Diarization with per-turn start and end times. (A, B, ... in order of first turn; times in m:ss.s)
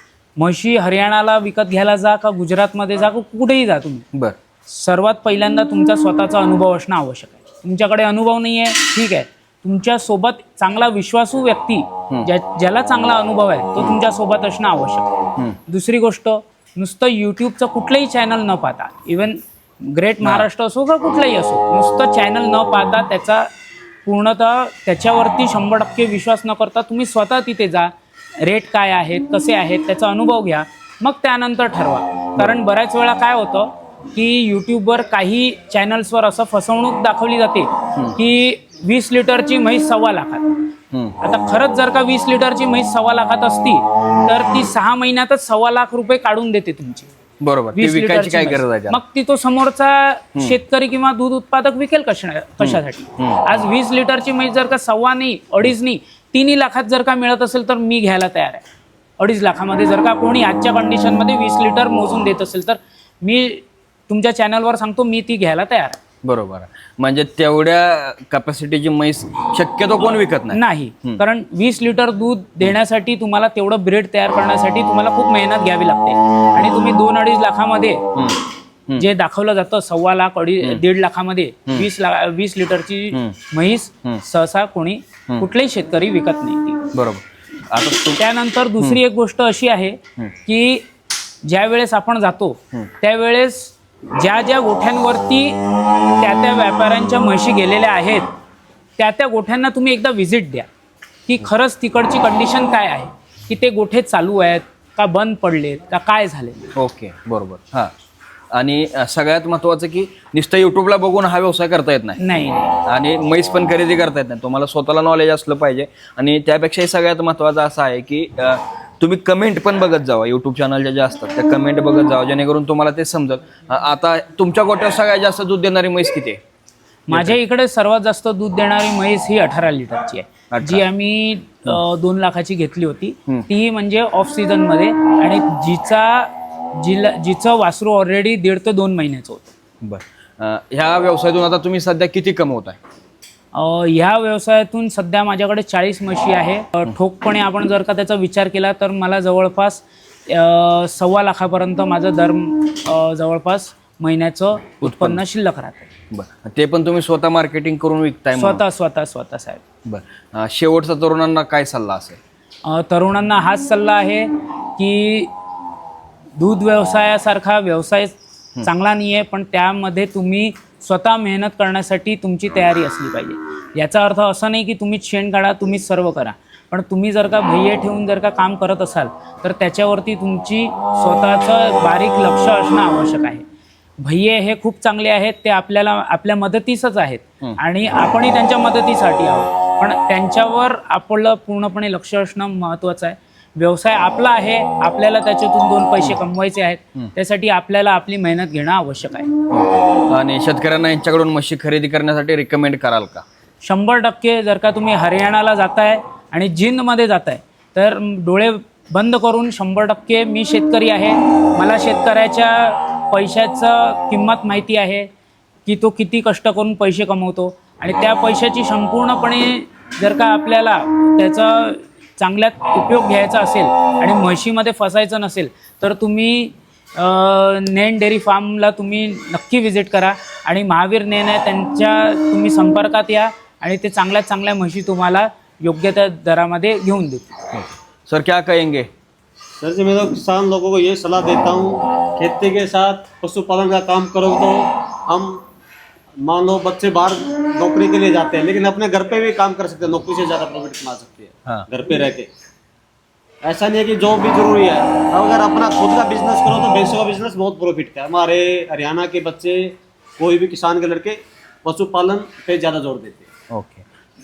0:00.4-0:04.0 A
0:04.7-0:15.1 A
0:15.7-0:23.5 A
0:20.2-0:20.5 B
0:24.1-0:27.9 A
0:28.4-0:40.7 A
0:41.2-0:47.1 A
0:47.4-0:49.0 B
0:47.8-0:58.6 A
0:52.6-0:53.4 B
0:59.2-1:06.0 A
1:06.2-1:11.2 B
1:10.0-1:18.0 A
1:18.1-1:19.0 B
1:19.0-1:26.8 A
1:23.1-1:23.4 B
1:26.9-1:28.2 B
1:28.2-1:30.9 A
1:31.4-1:38.3 A
1:39.0-1:40.7 A
1:41.3-1:46.7 A
1:46.8-1:47.9 B
1:48.5-1:52.2 B
1:52.2-1:52.8 A
1:52.8-2:06.4 B
2:07.1-2:19.5 A
2:07.1-2:07.4 B
2:10.5-2:10.8 B
2:19.8-2:22.8 B
2:23.6-2:35.9 A
2:34.8-2:35.2 B
2:36.1-2:38.6 B
2:38.4-2:39.6 A
2:39.8-2:42.2 B
2:42.7-2:45.3 A
2:46.4-3:03.4 A
3:04.0-3:19.3 A
3:19.5-3:23.2 B
3:23.6-3:35.1 A
3:35.7-3:57.4 A
3:57.5-3:58.9 B
3:59.6-4:05.4 C
4:06.2-4:12.3 C
4:13.4-4:23.3 C
4:23.5-4:23.8 B